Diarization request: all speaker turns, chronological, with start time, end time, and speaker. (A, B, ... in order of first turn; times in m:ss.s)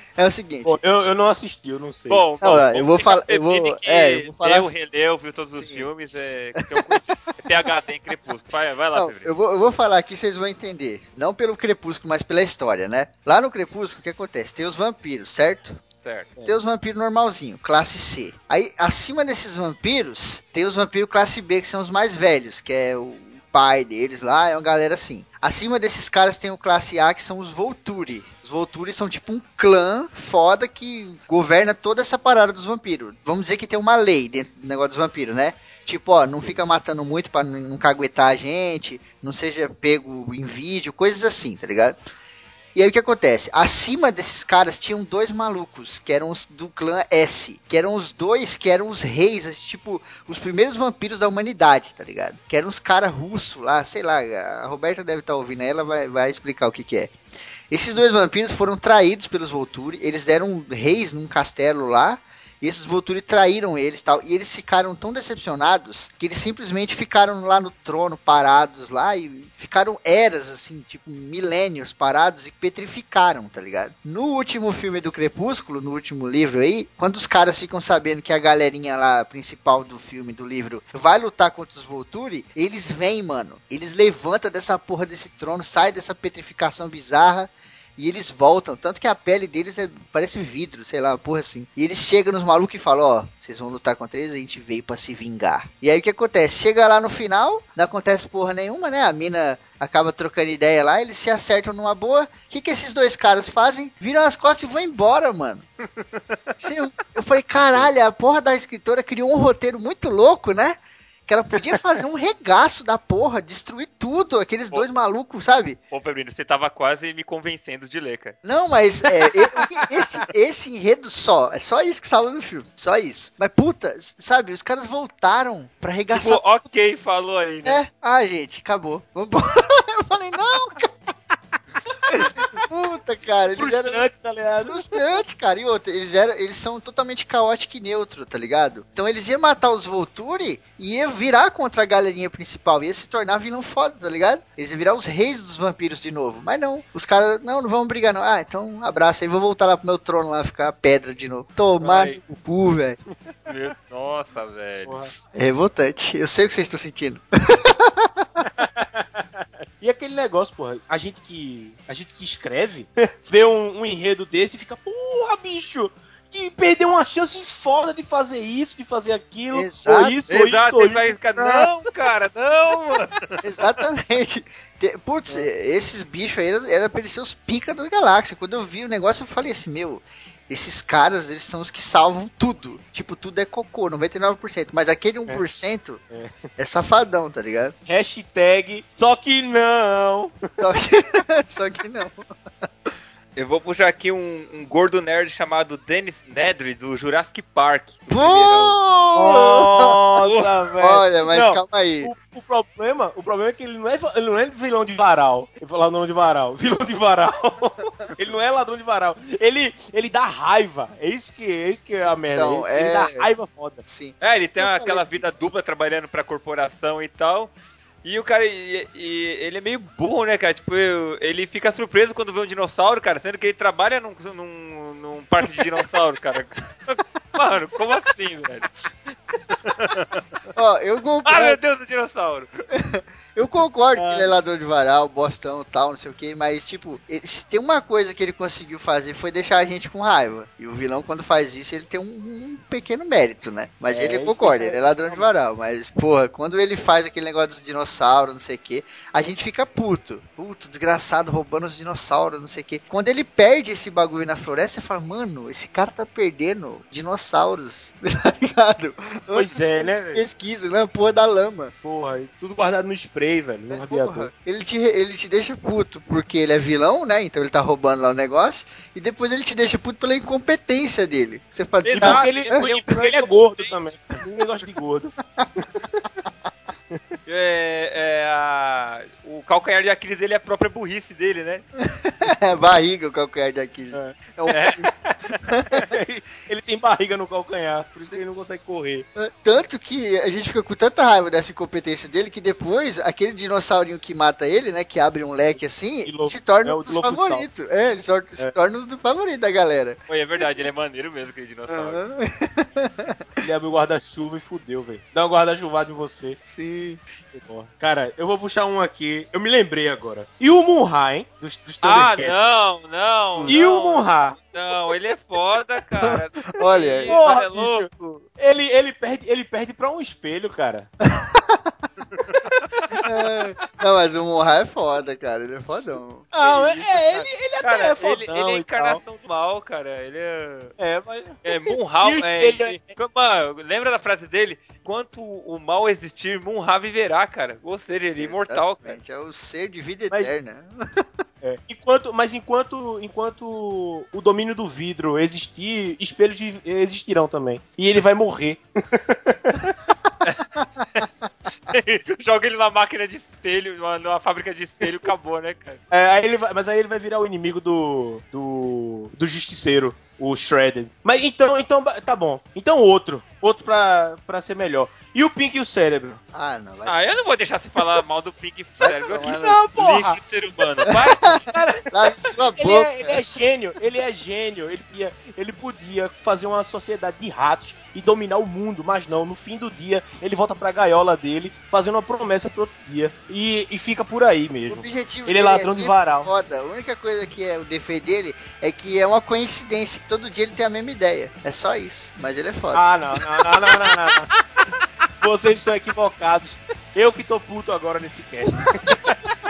0:00.2-0:00.8 A
0:00.6-0:02.2 B
0:02.1-0:09.3 C
0:02.4-0:04.7 A
0:05.5-0:06.8 A
0:08.9-0:15.8 A
0:16.0-0:16.3 C
0:16.4-0:42.0 A
0:42.7-0:57.1 A
0:57.7-1:45.6 A
1:46.0-1:46.4 C
1:46.6-1:55.8 A
1:55.9-1:58.4 C
1:58.4-2:06.6 A
2:06.1-2:07.8 C
2:07.6-2:10.9 A
2:12.2-2:14.0 A
2:13.6-2:15.2 B
2:14.6-2:33.0 A
2:31.8-2:32.2 C
2:33.5-2:35.0 C
2:34.8-2:35.1 B
2:35.3-2:38.2 A
2:38.6-2:51.7 B
2:49.5-2:50.2 A
2:50.3-2:53.2 C
2:53.4-3:06.0 A
3:06.1-3:06.3 B
3:06.6-3:07.7 A
3:07.8-3:10.3 B
3:10.6-3:12.9 A
3:13.4-3:18.8 C
3:18.1-3:19.9 A
3:19.1-3:33.8 B
3:20.8-3:22.1 A
3:32.3-3:33.3 A
3:33.8-3:35.3 A
3:34.2-3:37.5 C
3:38.0-3:48.9 C
3:49.6-3:50.3 C
3:50.6-3:51.6 A
3:51.2-3:52.5 C
3:52.7-4:21.7 A
3:53.9-3:54.3 B
4:03.9-4:05.2 B
4:19.3-4:20.2 B
4:21.8-4:24.3 B
4:23.7-4:32.6 A
4:31.8-4:34.2 C
4:32.0-4:36.1 B
4:37.2-4:41.6 C
4:41.8-4:44.9 A
4:43.9-4:45.2 B
4:44.5-4:44.8 C
4:45.5-4:45.8 A
4:45.7-4:49.0 B
4:49.2-5:00.0 A
4:56.0-4:57.5 B
5:00.1-5:02.0 C
5:01.7-5:03.2 A
5:03.4-5:06.4 B
5:06.5-5:07.0 A
5:07.3-5:12.4 B
5:11.8-5:18.2 C
5:13.5-5:14.4 B
5:16.0-5:17.2 A
5:17.1-5:17.9 B
5:18.4-5:20.9 B
5:21.0-5:21.6 A
5:22.1-5:22.8 C
5:23.0-5:26.3 A
5:26.3-5:29.0 B
5:26.4-5:30.7 C
5:30.8-5:33.0 B
5:31.4-5:39.0 C
5:38.2-5:41.0 A
5:41.4-5:49.7 B
5:50.2-5:51.1 C
5:51.7-5:55.8 C
5:55.9-6:06.2 B
6:06.3-6:07.1 A
6:06.8-6:11.6 C
6:08.8-6:09.6 A
6:09.3-6:10.2 B
6:11.2-6:13.2 A
6:11.5-6:11.8 B
6:12.6-6:26.3 B
6:24.7-6:32.9 A
6:32.7-6:34.3 B
6:35.2-6:39.2 B
6:38.4-6:38.9 A